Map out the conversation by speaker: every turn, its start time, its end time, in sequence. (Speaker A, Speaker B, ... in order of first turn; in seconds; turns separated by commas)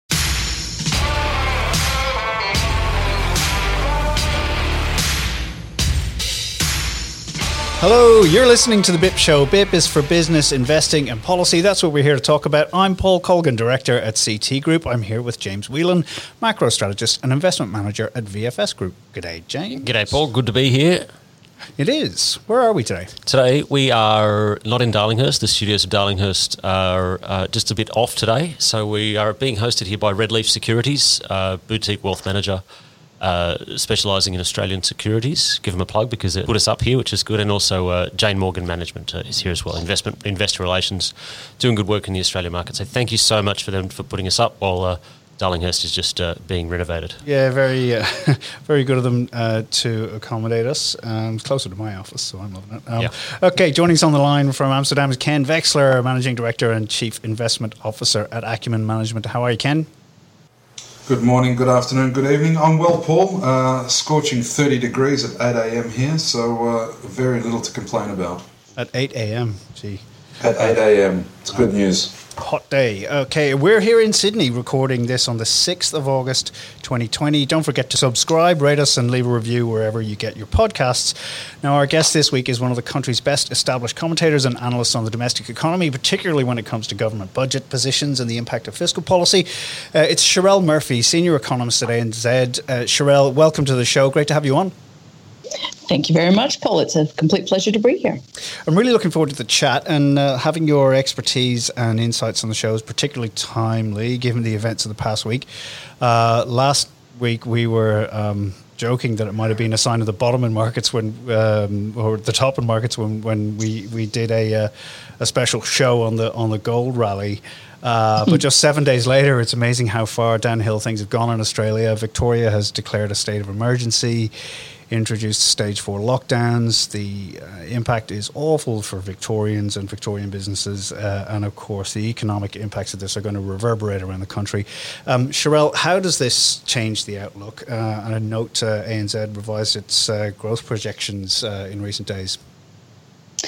Speaker A: 7.8-20.2, Speaker B: 19.8-21.1, Speaker A: 21.8-23.2, Speaker B: 23.3-32.6, Speaker B: 33.2-47.2, Speaker A: 47.2-59.9, Speaker C: 61.1-68.4, Speaker A: 68.8-70.0, Speaker C: 70.4-72.1, Speaker A: 72.4-94.7, Speaker D: 95.9-98.2, Speaker A: 98.7-105.5, Speaker A: 106.0-124.3, Speaker A: 124.9-142.4